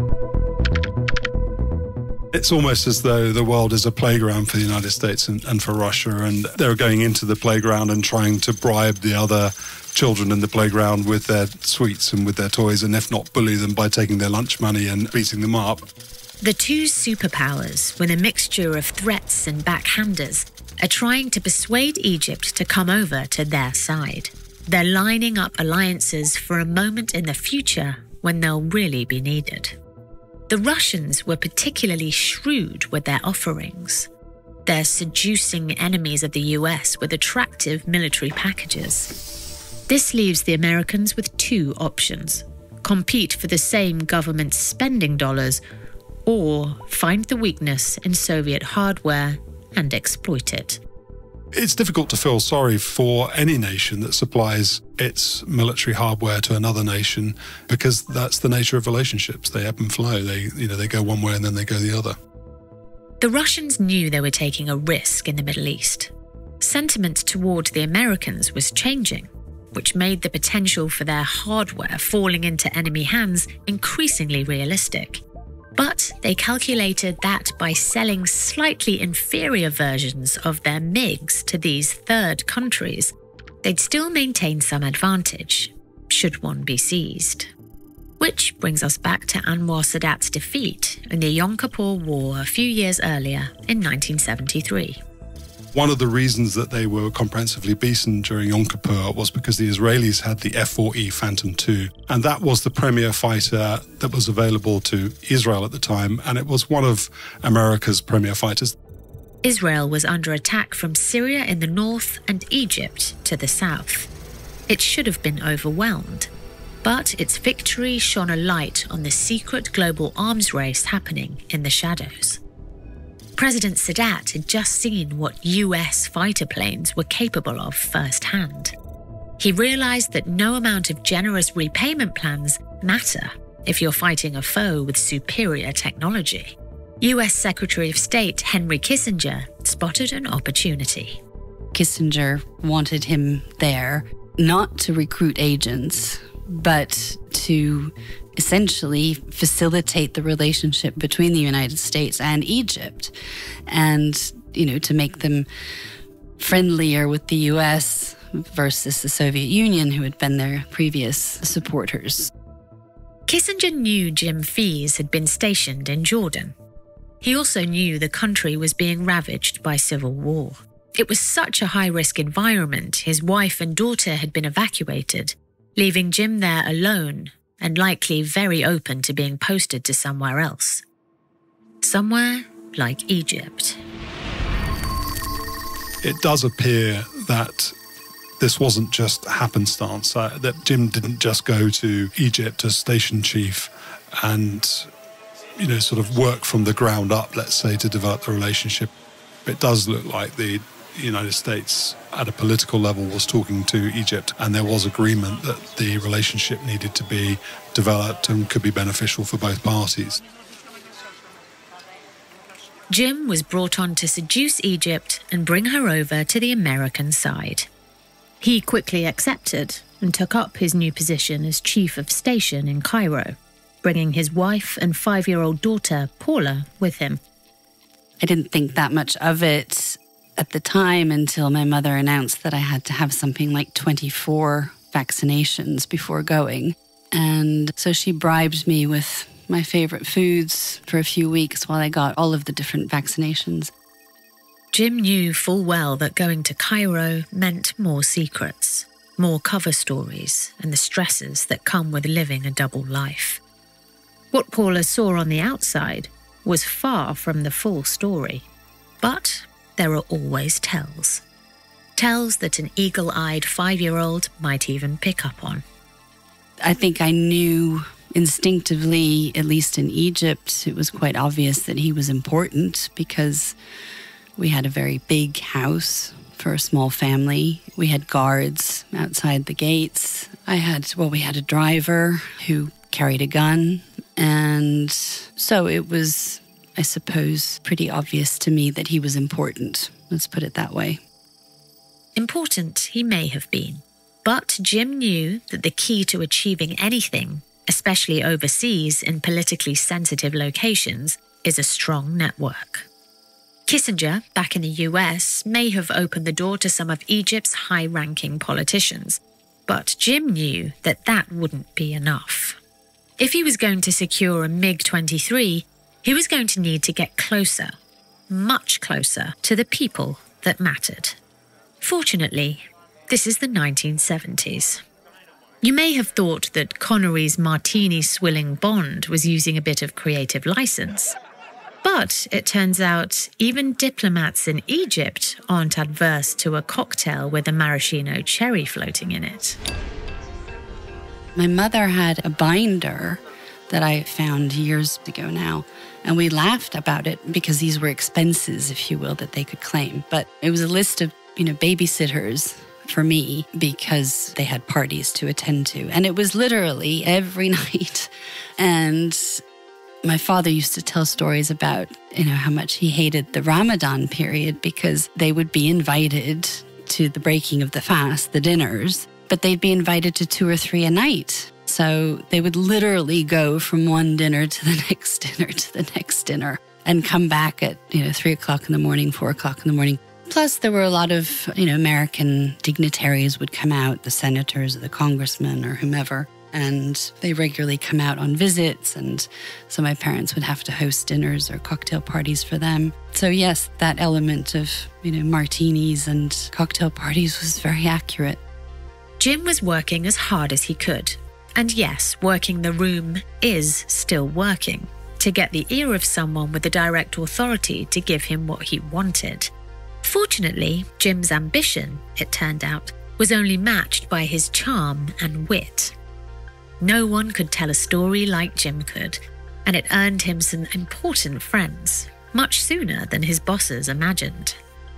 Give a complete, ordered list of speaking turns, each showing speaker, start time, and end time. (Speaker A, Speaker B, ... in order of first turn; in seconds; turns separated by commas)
Speaker A: 2.3-15.8, Speaker B: 16.4-29.8, Speaker B: 30.5-34.1, Speaker B: 34.7-39.1, Speaker B: 39.9-45.6, Speaker B: 46.3-50.8, Speaker A: 51.5-62.2, Speaker B: 63.2-75.2, Speaker B: 75.8-87.5, Speaker B: 88.2-95.0, Speaker A: 95.7-108.8, Speaker B: 109.4-114.1, Speaker B: 114.7-116.3, Speaker B: 116.8-122.4, Speaker B: 123.4-128.7, Speaker B: 129.4-141.2, Speaker C: 141.7-153.2, Speaker C: 153.7-155.5, Speaker C: 156.4-162.3, Speaker B: 163.3-166.6, Speaker B: 167.2-180.8, Speaker B: 181.8-183.8, Speaker A: 186.0-187.7, Speaker A: 188.4-194.9, Speaker A: 195.6-198.9, Speaker A: 199.5-210.2, Speaker B: 212.9-217.7, Speaker B: 218.4-227.2, Speaker C: 228.2-243.7, Speaker B: 244.7-253.4, Speaker B: 254.3-258.5, Speaker B: 259.0-261.2, Speaker B: 262.0-265.6, Speaker C: 266.6-273.6, Speaker C: 274.4-291.0, Speaker B: 292.2-302.9, Speaker B: 303.7-312.6, Speaker B: 313.2-317.7, Speaker B: 318.3-321.2, Speaker B: 321.8-324.8, Speaker B: 325.6-331.1, Speaker B: 331.8-339.6, Speaker C: 341.4-359.4, Speaker C: 360.0-398.4, Speaker B: 399.2-409.5, Speaker B: 410.0-415.9, Speaker B: 416.8-424.6